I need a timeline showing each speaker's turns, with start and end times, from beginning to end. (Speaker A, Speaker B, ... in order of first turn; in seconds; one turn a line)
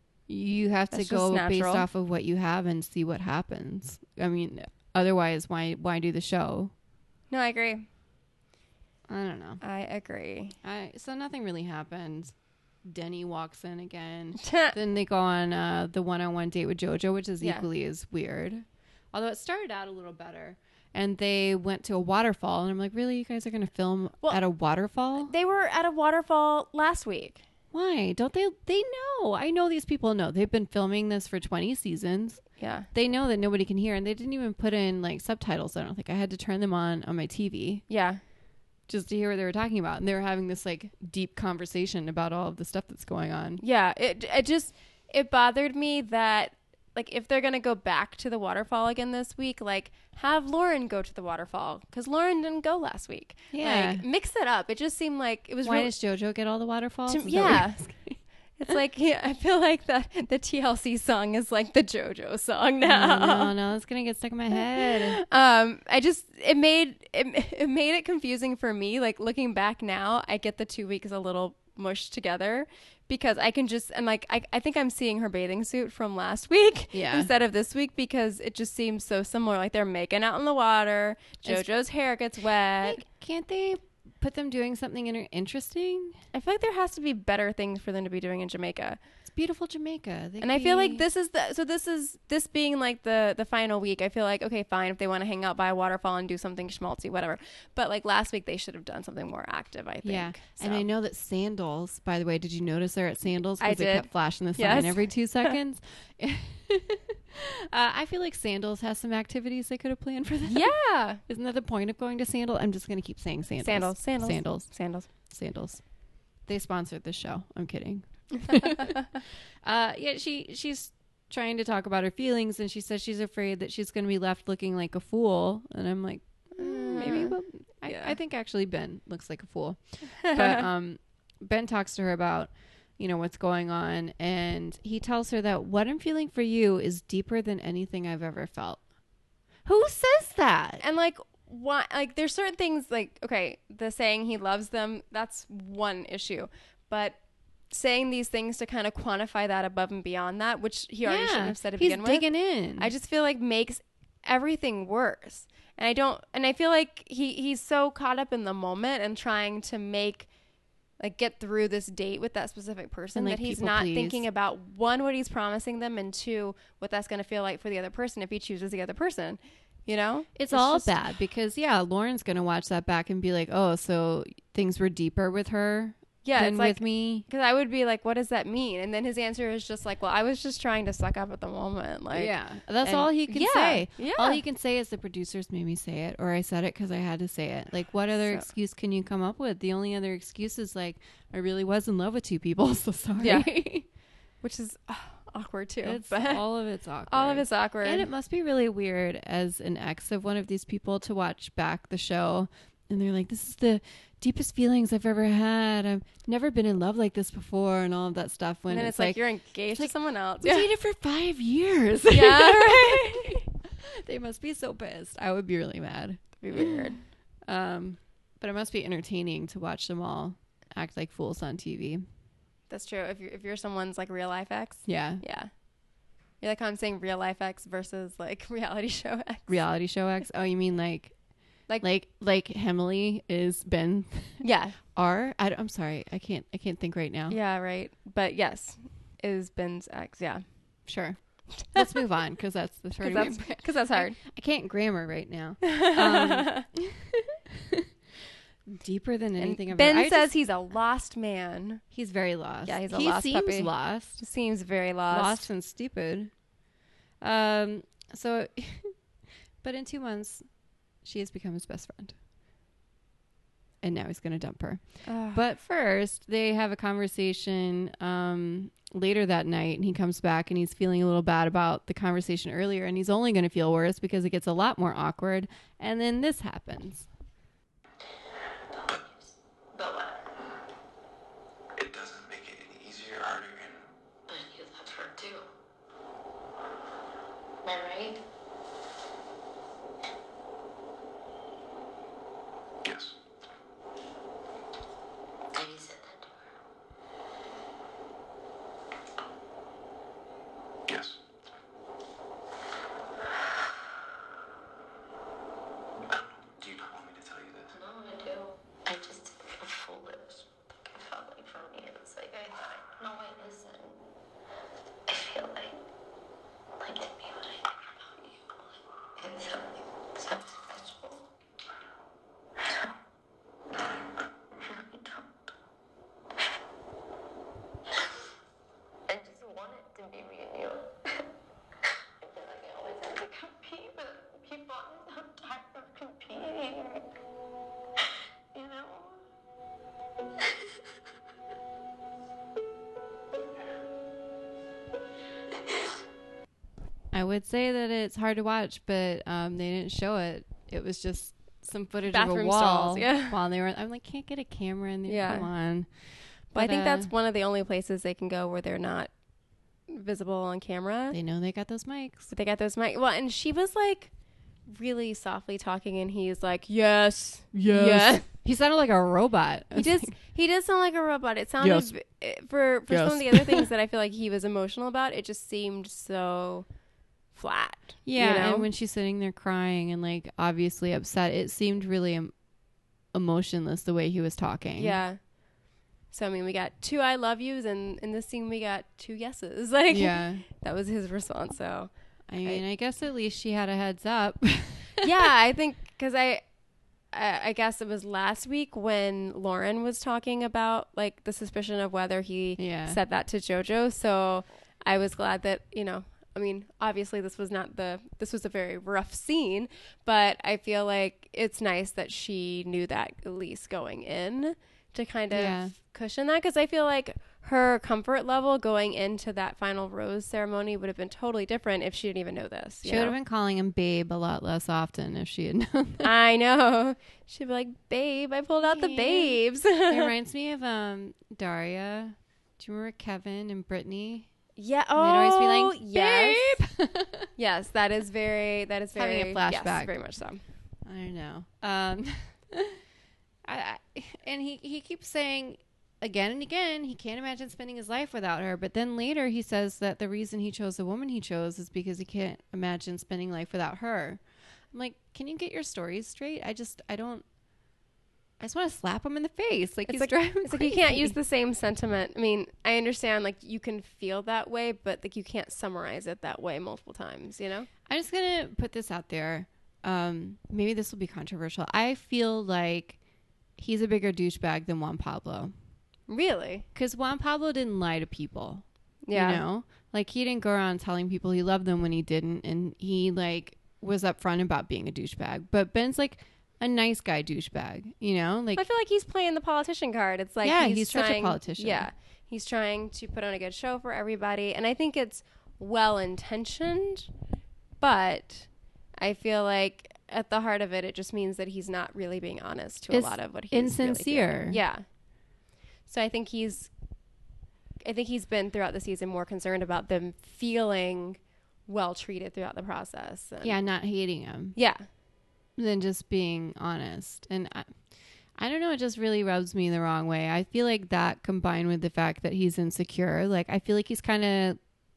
Speaker A: 0.3-6.7
Speaker B: 0.9-1.9
Speaker B: 7.3-7.9
Speaker A: 9.1-9.6
Speaker B: 9.6-10.6
Speaker A: 10.6-25.3
Speaker B: 14.4-14.8
Speaker B: 17.4-17.6
Speaker B: 25.2-27.4
Speaker A: 27.7-37.8
Speaker B: 32.6-32.9
Speaker B: 37.9-38.2
Speaker A: 38.9-43.6
Speaker B: 43.6-55.9
Speaker A: 53.5-54.0
Speaker A: 55.6-58.2
Speaker B: 57.1-57.8
Speaker B: 58.6-63.5
Speaker A: 62.8-65.2
Speaker B: 64.6-83.0
Speaker A: 76.9-77.3
Speaker A: 82.8-86.2
Speaker B: 86.3-89.0
Speaker A: 89.2-91.0
Speaker B: 90.4-100.9
Speaker A: 100.0-110.7
Speaker B: 103.6-105.5
Speaker B: 110.5-111.2
Speaker A: 111.2-115.8
Speaker B: 113.6-115.1
Speaker A: 116.4-119.0
Speaker B: 118.5-119.0
Speaker A: 119.6-138.8
Speaker B: 126.6-128.1
Speaker B: 130.2-130.7
Speaker A: 139.6-140.8
Speaker B: 140.8-147.2
Speaker B: 147.7-160.3
Speaker A: 151.0-152.9
Speaker B: 161.0-170.9
Speaker A: 163.1-164.2
Speaker A: 170.3-177.2
Speaker B: 176.2-182.3
Speaker A: 182.1-193.8
Speaker B: 182.8-184.4
Speaker B: 193.2-193.5
Speaker B: 194.4-196.4
Speaker A: 195.8-216.9
Speaker B: 197.1-198.1
Speaker B: 208.7-210.7
Speaker B: 212.1-213.4
Speaker B: 216.4-217.0
Speaker A: 217.4-222.0
Speaker B: 222.7-225.5
Speaker A: 224.8-225.2
Speaker B: 226.4-229.6
Speaker A: 229.5-231.1
Speaker A: 231.8-237.4
Speaker B: 234.4-234.8
Speaker B: 237.3-240.4
Speaker A: 240.9-247.8
Speaker B: 243.0-244.2
Speaker B: 245.6-246.7
Speaker A: 248.7-250.3
Speaker B: 249.4-251.8
Speaker A: 251.9-254.2
Speaker B: 252.7-255.5
Speaker A: 255.1-256.3
Speaker A: 257.2-258.9
Speaker A: 259.6-260.5
Speaker A: 261.0-262.1
Speaker A: 263.8-277.1
Speaker B: 265.0-265.4
Speaker C: 278.9-280.2
Speaker D: 281.8-283.8
Speaker C: 284.3-285.5
Speaker C: 287.6-288.2
Speaker D: 292.8-293.1
Speaker C: 295.5-296.3
Speaker D: 300.9-301.2
Speaker D: 306.1-307.7
Speaker C: 307.7-314.0
Speaker C: 315.1-315.7
Speaker C: 316.8-321.3
Speaker C: 324.6-325.3
Speaker C: 329.1-330.9
Speaker C: 332.2-337.0
Speaker C: 338.5-339.2
Speaker A: 347.1-355.9
Speaker B: 352.1-353.4
Speaker B: 355.1-355.5
Speaker A: 356.5-357.1
Speaker B: 356.5-359.1
Speaker B: 359.9-361.2
Speaker A: 361.1-362.3
Speaker B: 362.3-364.1
Speaker B: 364.7-368.3
Speaker A: 367.5-370.1
Speaker B: 369.7-376.6
Speaker A: 371.6-371.9
Speaker A: 372.9-373.7
Speaker B: 377.3-378.7
Speaker A: 378.0-382.3
Speaker A: 383.1-385.0
Speaker B: 384.8-385.2
Speaker B: 386.1-391.9
Speaker A: 389.9-390.4
Speaker A: 392.3-395.1
Speaker B: 395.0-396.4
Speaker B: 397.1-423.1
Speaker A: 402.6-403.0
Speaker A: 415.3-415.7
Speaker A: 422.8-426.1
Speaker B: 426.0-430.1
Speaker A: 428.6-434.3
Speaker B: 434.6-436.6
Speaker A: 435.0-437.3
Speaker B: 437.4-440.4
Speaker A: 438.9-439.9
Speaker A: 440.9-442.8
Speaker A: 443.4-454.2
Speaker A: 454.7-457.2
Speaker A: 458.4-461.1
Speaker B: 459.9-467.7
Speaker A: 467.9-473.0
Speaker A: 473.6-475.5
Speaker B: 476.1-476.6
Speaker A: 476.7-488.6
Speaker B: 479.1-479.4
Speaker B: 488.6-497.1
Speaker A: 490.4-491.9
Speaker B: 497.8-504.8
Speaker A: 502.9-504.6
Speaker B: 505.9-506.7
Speaker B: 507.8-513.5
Speaker A: 513.4-514.5
Speaker B: 514.5-514.9
Speaker A: 515.6-517.7
Speaker A: 518.4-524.6